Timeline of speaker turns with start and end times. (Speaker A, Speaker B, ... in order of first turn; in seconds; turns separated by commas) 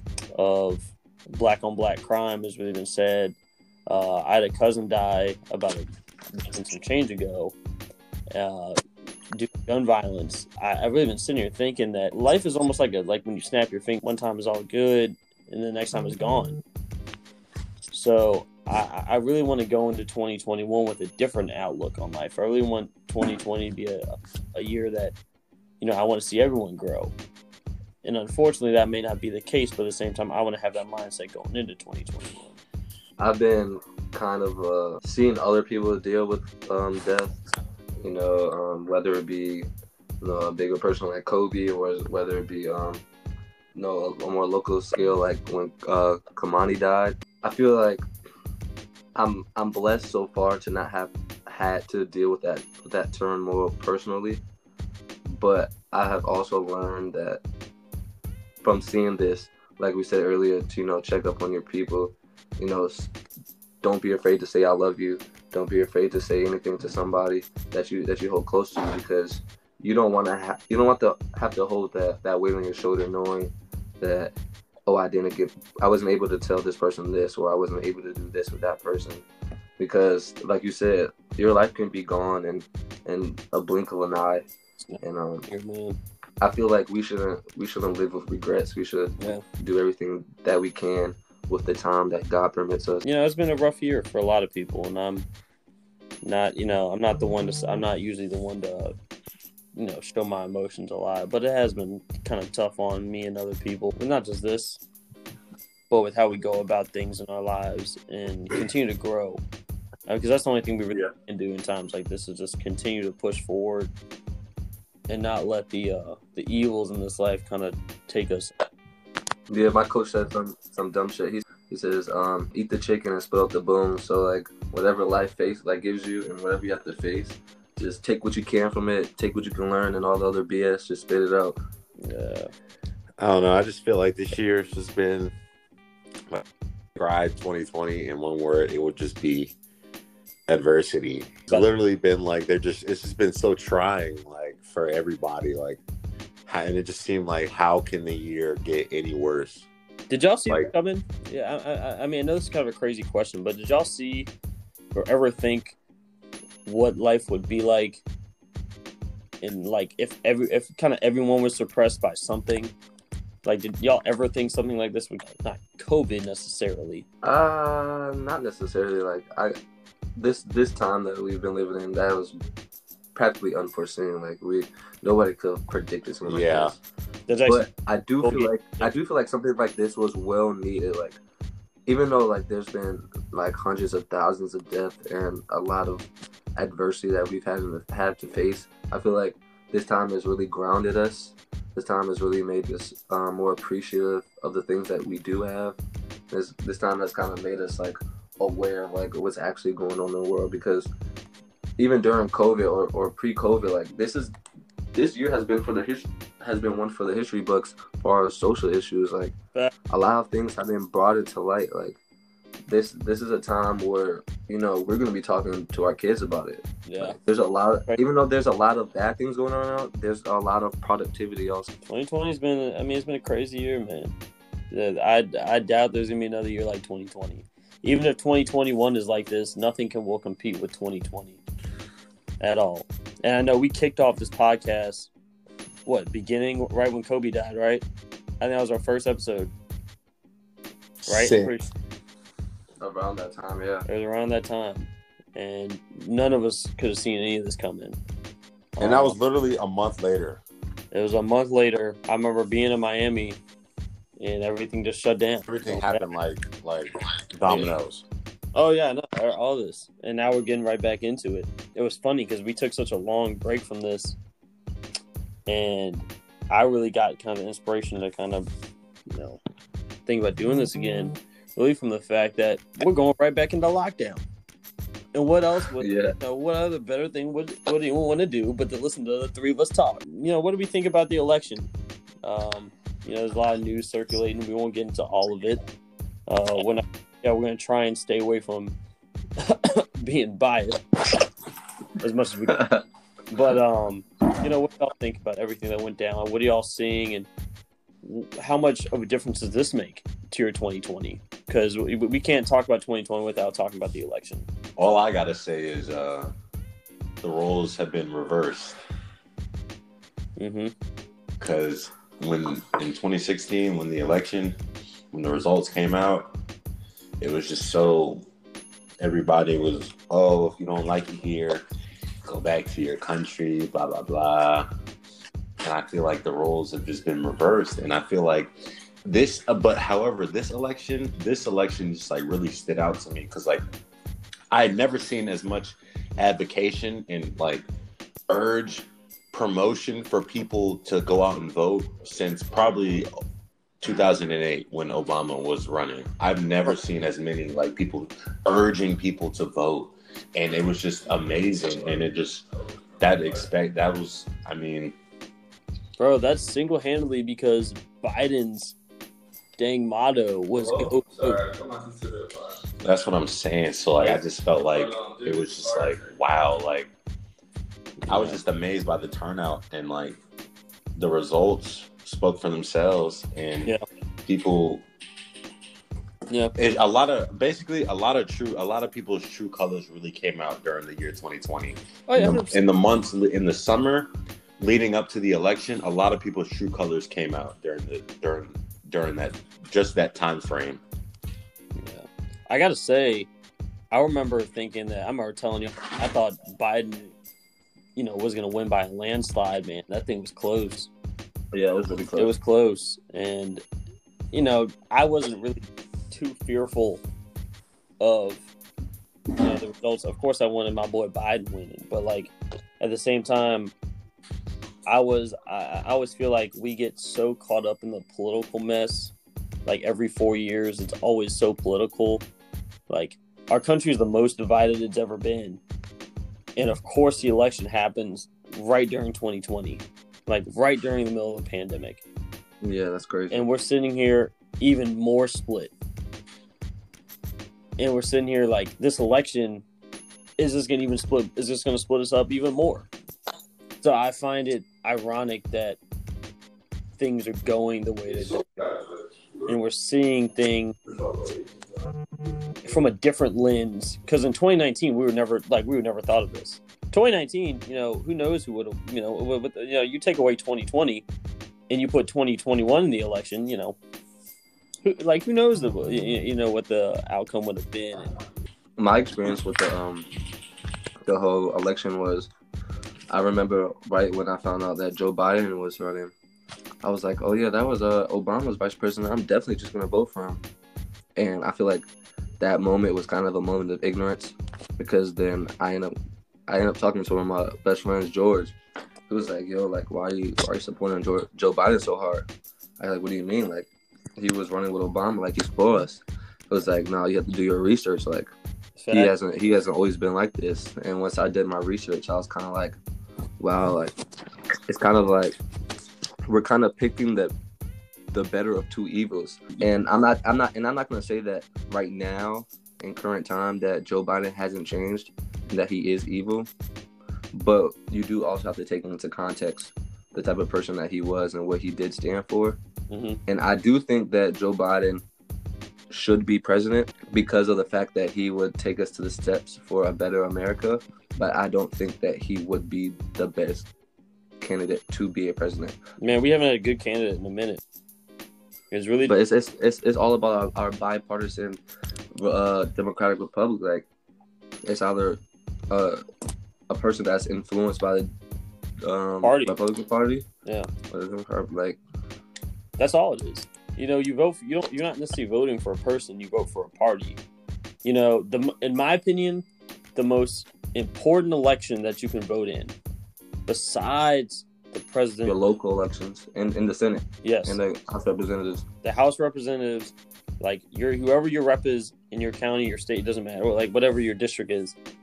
Speaker A: 0.3-7.5, Speaker A: 8.3-8.8, Speaker A: 9.3-16.6, Speaker A: 17.9-25.1, Speaker A: 25.8-27.1, Speaker A: 28.0-32.6, Speaker B: 33.2-37.4, Speaker B: 38.0-39.7, Speaker B: 40.2-43.0, Speaker B: 43.7-48.0, Speaker B: 49.1-54.4, Speaker B: 55.2-57.4, Speaker B: 58.6-63.1, Speaker B: 63.8-74.3, Speaker B: 74.8-79.2, Speaker B: 79.8-84.5, Speaker A: 84.9-86.0, Speaker B: 85.0-85.4, Speaker B: 86.4-93.0, Speaker A: 93.0-95.2, Speaker A: 96.2-98.9, Speaker A: 99.7-104.8, Speaker A: 105.9-109.4, Speaker A: 110.1-113.9, Speaker A: 115.1-118.5, Speaker B: 119.5-131.6, Speaker A: 132.0-132.5, Speaker C: 133.2-135.3, Speaker C: 136.3-139.6, Speaker C: 140.5-145.8, Speaker C: 146.4-149.7, Speaker A: 150.1-154.3, Speaker A: 154.9-155.8, Speaker A: 156.6-158.0, Speaker A: 159.4-162.7, Speaker A: 163.4-167.1, Speaker B: 167.2-169.5, Speaker B: 170.2-172.3, Speaker B: 173.1-176.8, Speaker C: 176.2-176.7, Speaker A: 177.3-177.7, Speaker B: 177.5-181.2, Speaker A: 178.2-178.8, Speaker B: 181.9-195.8, Speaker B: 196.3-200.9, Speaker B: 201.8-204.3, Speaker B: 204.9-209.4, Speaker B: 209.9-212.0, Speaker B: 212.7-221.7, Speaker A: 216.8-217.2, Speaker A: 221.8-224.1, Speaker A: 224.7-231.4, Speaker A: 232.4-235.1, Speaker A: 235.8-237.8, Speaker A: 238.4-239.5, Speaker C: 241.0-241.6, Speaker A: 241.1-241.7, Speaker B: 242.8-243.8, Speaker A: 243.8-248.0, Speaker A: 248.8-249.2, Speaker C: 248.8-250.4, Speaker A: 250.9-253.4, Speaker A: 254.2-256.0, Speaker C: 255.5-258.0, Speaker A: 258.5-264.2, Speaker A: 265.5-268.5, Speaker A: 269.1-269.4, Speaker A: 270.1-274.2, Speaker A: 275.1-281.7, Speaker B: 275.8-276.1, Speaker A: 282.2-285.6, Speaker A: 286.3-288.7, Speaker A: 289.4-290.8, Speaker A: 292.0-292.7, Speaker A: 293.3-297.3, Speaker A: 298.0-304.5, Speaker C: 304.8-306.3, Speaker C: 307.2-308.8, Speaker A: 310.4-310.7, Speaker C: 311.4-314.6, Speaker C: 315.1-316.3, Speaker C: 317.2-318.3, Speaker C: 319.0-321.6, Speaker C: 322.2-324.7, Speaker C: 325.6-328.5, Speaker C: 329.0-333.6, Speaker C: 334.5-337.6, Speaker C: 338.3-343.1, Speaker C: 343.8-352.4, Speaker C: 353.0-354.9, Speaker A: 356.0-358.8, Speaker A: 359.6-361.4, Speaker B: 361.5-362.2, Speaker C: 362.8-366.9, Speaker A: 368.0-368.4, Speaker C: 368.1-370.2, Speaker C: 370.9-373.7, Speaker C: 374.2-374.9, Speaker A: 376.3-376.5, Speaker C: 376.6-390.8, Speaker A: 382.1-382.6, Speaker A: 391.8-393.3, Speaker A: 393.9-397.1, Speaker A: 397.9-400.9, Speaker B: 401.5-402.3, Speaker A: 402.1-403.6, Speaker A: 404.3-407.0, Speaker A: 408.0-408.5, Speaker A: 409.3-413.7, Speaker A: 414.9-419.1, Speaker A: 419.6-422.2, Speaker A: 422.9-425.6, Speaker A: 426.6-432.0, Speaker B: 432.6-433.4, Speaker A: 433.3-435.7, Speaker A: 437.8-439.6, Speaker A: 440.4-442.9, Speaker A: 443.8-445.8, Speaker A: 447.0-448.7, Speaker A: 449.4-450.8, Speaker A: 452.6-461.1, Speaker A: 461.7-463.8, Speaker A: 464.8-468.1, Speaker B: 468.8-470.1, Speaker B: 471.0-472.3, Speaker B: 473.1-476.1, Speaker B: 476.8-480.4, Speaker B: 481.1-481.9, Speaker B: 482.4-485.9, Speaker B: 486.5-488.5, Speaker B: 489.1-492.3, Speaker B: 492.8-498.3, Speaker A: 498.8-499.1, Speaker B: 498.9-502.8, Speaker B: 503.4-503.9, Speaker B: 504.7-505.4, Speaker B: 506.3-507.3, Speaker B: 508.1-516.5, Speaker B: 517.3-522.6, Speaker A: 522.9-523.2, Speaker B: 523.3-525.0, Speaker B: 525.9-533.7, Speaker B: 534.4-535.8, Speaker A: 536.0-537.6, Speaker A: 538.7-539.1, Speaker B: 539.1-541.6, Speaker B: 542.1-543.9, Speaker B: 544.6-546.0, Speaker B: 546.7-548.1, Speaker B: 548.8-550.2, Speaker A: 549.2-549.5, Speaker B: 550.9-551.8, Speaker A: 552.8-557.2, Speaker A: 557.8-562.7, Speaker A: 563.5-565.4, Speaker B: 565.2-568.6, Speaker A: 567.2-567.6, Speaker A: 568.8-574.8